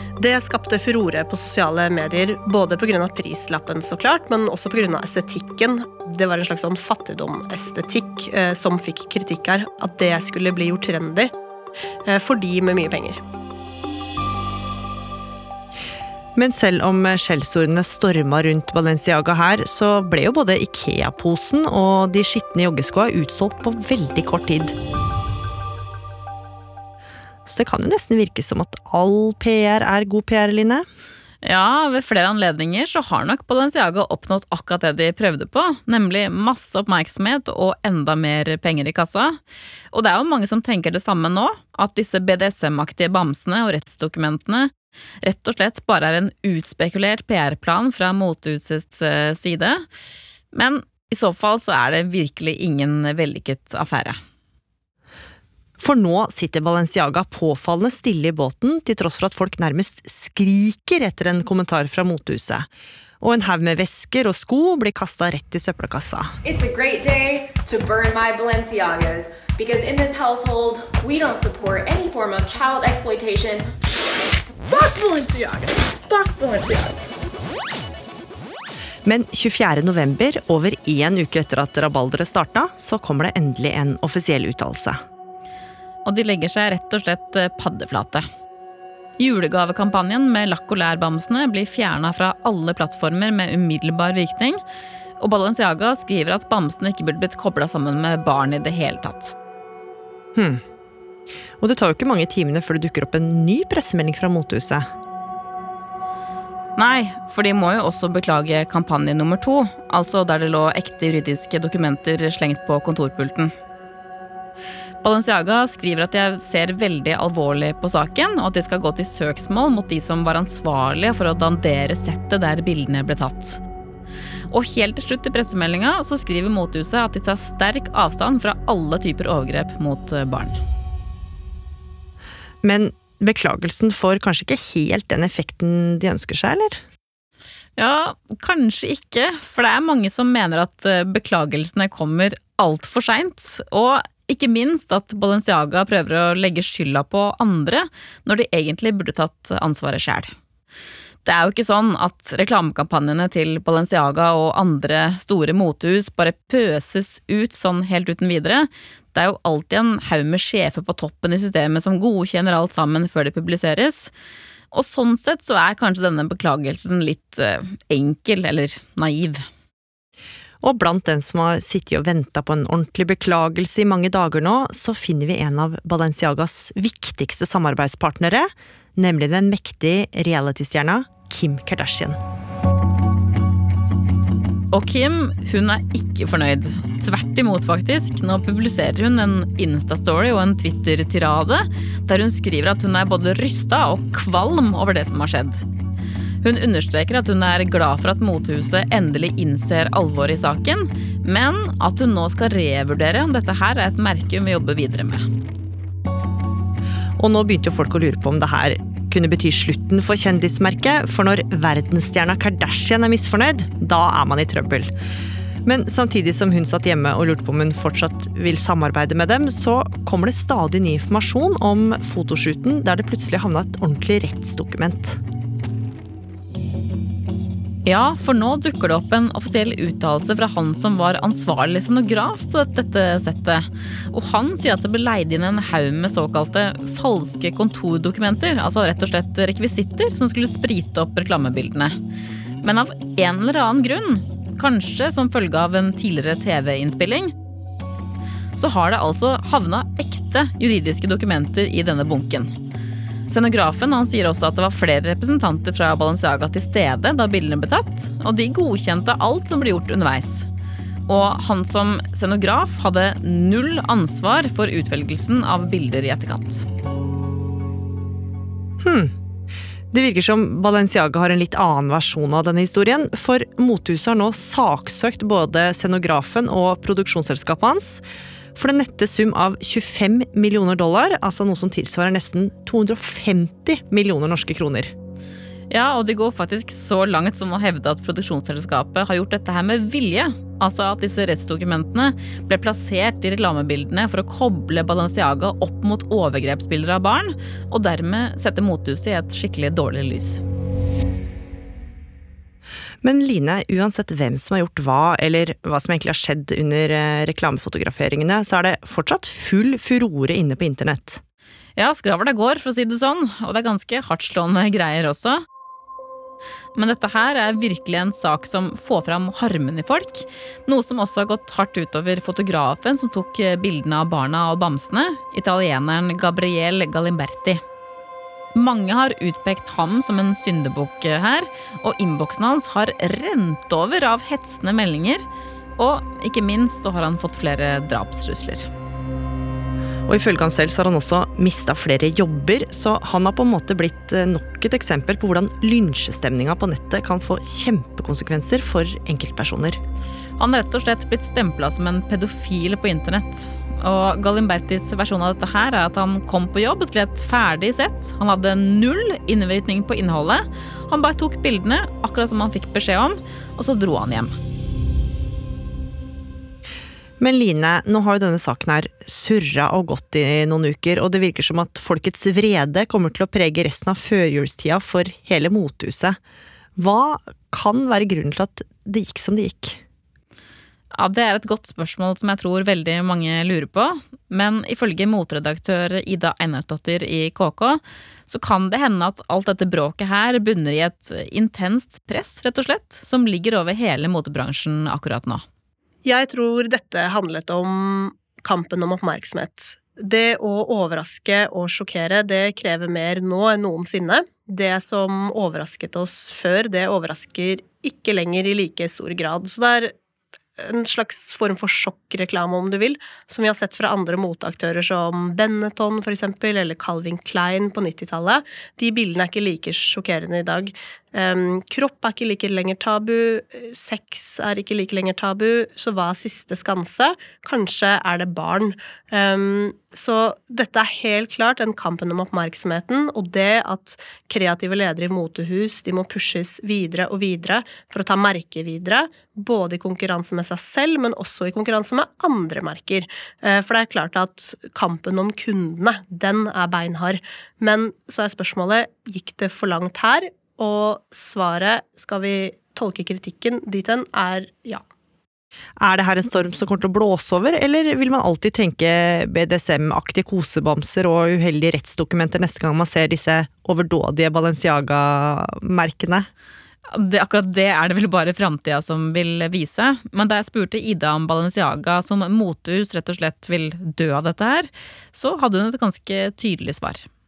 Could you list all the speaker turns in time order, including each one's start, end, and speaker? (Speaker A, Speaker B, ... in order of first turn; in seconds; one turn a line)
Speaker A: 0.2-11.3
Speaker A: 12.1-13.2
Speaker B: 16.4-24.7
Speaker B: 27.5-30.9
Speaker C: 31.4-39.4
Speaker C: 39.9-44.7
Speaker C: 45.2-49.8
Speaker C: 50.5-54.2
Speaker B: 55.8-62.7
Speaker B: 63.2-66.3
Speaker D: 66.4-73.7
Speaker D: 74.8-76.9
Speaker B: 79.0-85.0
Speaker C: 86.0-88.2
Speaker C: 89.2-94.6
Speaker C: 95.2-99.3
Speaker B: 100.4-100.6
Speaker B: 101.6-104.9
Speaker C: 106.8-113.5
Speaker C: 115.0-123.6
Speaker C: 124.5-130.6
Speaker B: 132.6-136.8
Speaker C: 137.8-150.3
Speaker C: 151.2-164.1
Speaker C: 164.7-169.4
Speaker B: 170.6-182.2
Speaker C: 184.7-195.6
Speaker C: 196.4-205.2
Speaker B: 207.2-214.9
Speaker B: 215.7-225.2
Speaker C: 227.8-241.9
Speaker C: 242.6-247.3
Speaker C: 248.6-252.5
Speaker C: 253.3-260.5
Speaker C: 261.1-266.6
Speaker B: 268.8-269.1
Speaker B: 269.9-278.0
Speaker B: 278.6-284.9
Speaker C: 285.7-300.4
Speaker B: 303.0-311.2
Speaker C: 311.8-315.4
Speaker C: 316.8-327.6
Speaker C: 328.6-335.2
Speaker C: 335.8-338.7
Speaker B: 340.1-349.8
Speaker C: 350.4-364.3
Speaker B: 367.2-376.2
Speaker B: 376.8-379.8
Speaker C: 380.9-395.4
Speaker A: 396.1-409.9
Speaker A: 410.6-454.8
Speaker B: 455.8-466.3
Speaker C: 466.9-477.1